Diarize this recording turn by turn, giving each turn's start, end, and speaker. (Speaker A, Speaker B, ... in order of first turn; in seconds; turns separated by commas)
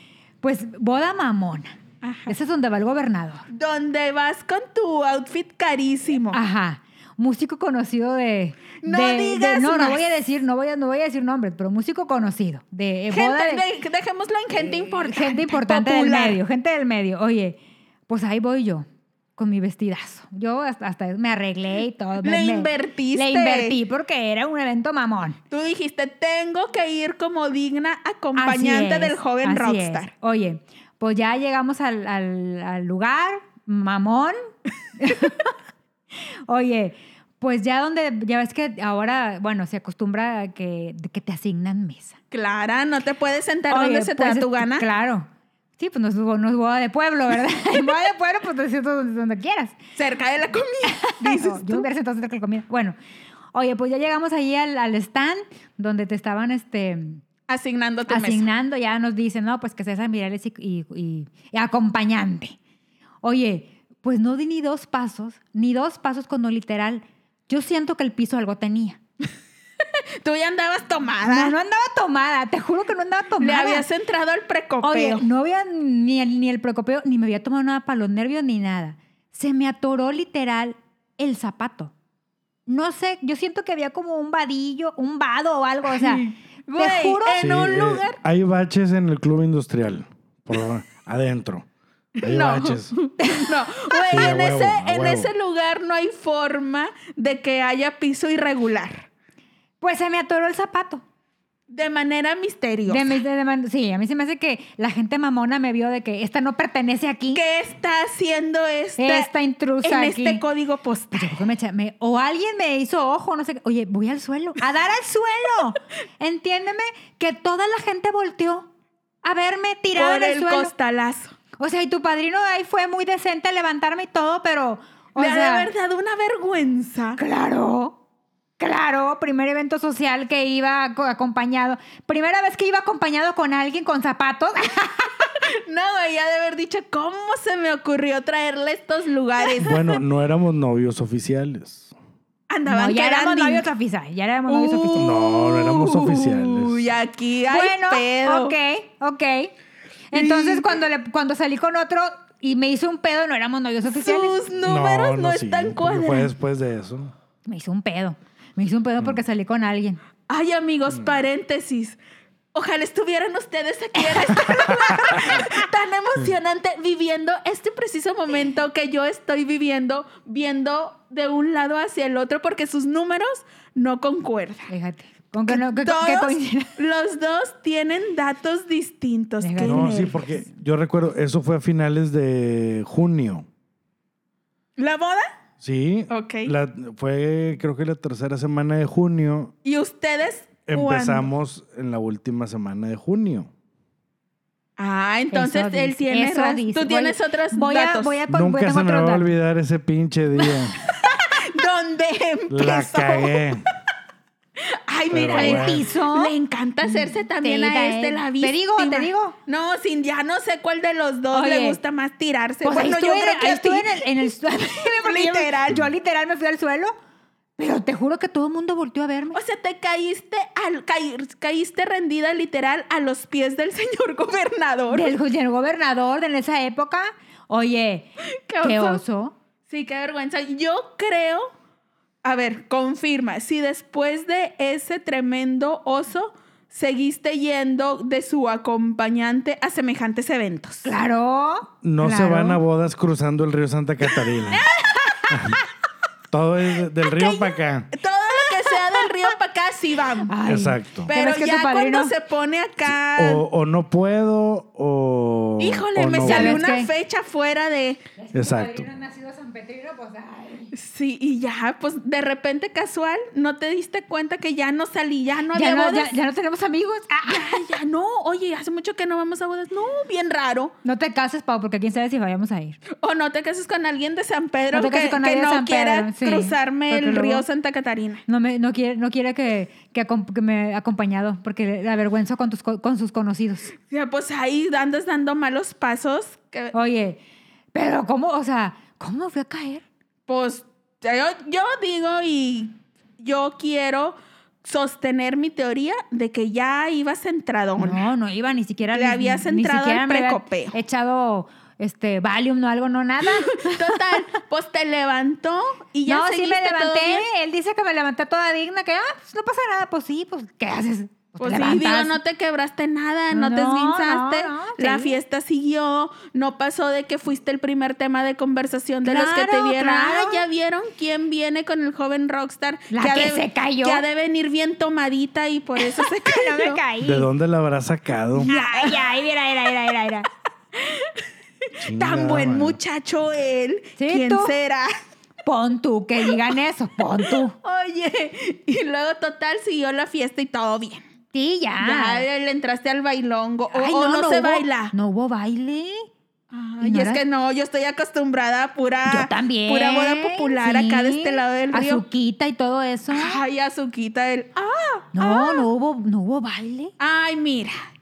Speaker A: 0.4-3.4, Speaker B: 2.0-2.3, Speaker B: 3.5-6.4, Speaker A: 6.3-13.6, Speaker B: 8.8-10.0, Speaker B: 13.1-16.4, Speaker A: 15.0-18.9, Speaker A: 19.4-25.4, Speaker B: 22.2-23.8, Speaker B: 25.5-30.1, Speaker A: 28.4-34.4, Speaker A: 35.0-35.5, Speaker A: 36.5-42.2, Speaker B: 42.3-44.9, Speaker A: 43.7-49.8, Speaker B: 50.0-51.9, Speaker A: 50.9-53.0, Speaker A: 53.5-57.2, Speaker B: 57.5-58.5, Speaker A: 58.1-62.6, Speaker A: 63.2-69.0, Speaker B: 70.2-71.5, Speaker A: 71.2-73.8, Speaker B: 73.4-75.2, Speaker A: 74.8-81.9, Speaker A: 82.7-86.2, Speaker B: 85.9-88.2, Speaker A: 86.8-87.4, Speaker C: 87.4-91.7, Speaker B: 92.2-99.0, Speaker C: 92.2-93.0, Speaker C: 94.1-95.3, Speaker A: 99.8-101.0, Speaker B: 101.7-103.1, Speaker A: 102.9-107.4, Speaker B: 107.3-109.3, Speaker A: 109.0-110.4, Speaker B: 109.8-111.4, Speaker A: 111.1-118.7, Speaker A: 119.2-120.7, Speaker B: 120.0-121.4, Speaker A: 121.6-125.7, Speaker B: 125.2-127.2, Speaker A: 127.2-128.0, Speaker A: 128.6-135.1, Speaker B: 135.5-140.0, Speaker C: 139.6-141.9, Speaker B: 142.5-143.7, Speaker A: 142.7-145.1, Speaker B: 144.5-148.5, Speaker C: 145.0-146.9, Speaker A: 147.5-149.5, Speaker A: 150.1-154.4, Speaker B: 150.1-150.7, Speaker B: 153.9-156.3, Speaker C: 154.7-157.1, Speaker A: 157.5-160.0, Speaker B: 160.3-162.0, Speaker B: 162.5-174.7, Speaker C: 165.1-165.4, Speaker A: 174.7-176.8, Speaker B: 175.5-180.0, Speaker A: 179.4-180.5, Speaker C: 179.6-183.5, Speaker B: 184.8-185.3, Speaker C: 185.6-189.5, Speaker B: 186.1-186.5, Speaker B: 189.6-191.3, Speaker C: 190.7-193.5, Speaker B: 194.8-198.2, Speaker A: 195.3-199.3, Speaker C: 198.3-200.8, Speaker B: 200.6-203.7, Speaker C: 202.5-203.7, Speaker B: 204.6-214.1, Speaker C: 205.1-205.8, Speaker A: 205.3-206.3, Speaker A: 206.8-209.3, Speaker A: 211.3-211.8, Speaker A: 212.6-217.0, Speaker B: 214.7-215.8, Speaker A: 217.6-219.4, Speaker B: 219.3-225.1, Speaker A: 224.9-228.1, Speaker B: 228.5-229.0, Speaker A: 228.6-229.3, Speaker B: 229.7-231.5, Speaker B: 232.2-240.9, Speaker A: 240.8-242.6, Speaker C: 241.8-244.6, Speaker B: 244.5-245.2, Speaker C: 245.3-245.6, Speaker C: 246.3-247.9, Speaker B: 247.1-250.3, Speaker A: 250.3-252.1, Speaker C: 250.5-251.1, Speaker B: 251.1-253.4, Speaker C: 252.9-256.6, Speaker B: 255.6-258.0, Speaker A: 256.2-256.9, Speaker A: 258.2-260.7, Speaker C: 258.3-258.8, Speaker B: 260.7-266.1, Speaker A: 265.5-267.5, Speaker B: 267.3-270.7, Speaker A: 270.8-272.8, Speaker B: 273.0-278.2, Speaker A: 274.7-277.4, Speaker A: 278.3-283.7, Speaker B: 283.9-286.7, Speaker A: 286.7-287.2, Speaker A: 287.7-289.8, Speaker B: 290.3-298.1, Speaker A: 297.8-304.0, Speaker B: 298.9-300.7, Speaker B: 303.2-307.3, Speaker A: 306.1-312.2, Speaker B: 311.4-326.8, Speaker A: 313.3-315.2, Speaker A: 319.0-320.4, Speaker A: 322.9-324.0, Speaker A: 325.8-327.3, Speaker C: 327.0-328.5, Speaker B: 328.4-329.1, Speaker A: 328.4-330.3, Speaker B: 330.8-331.2, Speaker C: 331.8-332.8, Speaker B: 332.0-334.9, Speaker A: 334.0-334.5, Speaker A: 335.4-337.5, Speaker B: 337.2-341.0, Speaker A: 341.3-342.2, Speaker B: 341.8-344.9, Speaker A: 343.7-346.1, Speaker B: 346.5-352.0, Speaker A: 346.8-347.2, Speaker A: 349.1-353.4, Speaker B: 353.1-355.7, Speaker A: 355.1-356.9, Speaker B: 357.0-357.8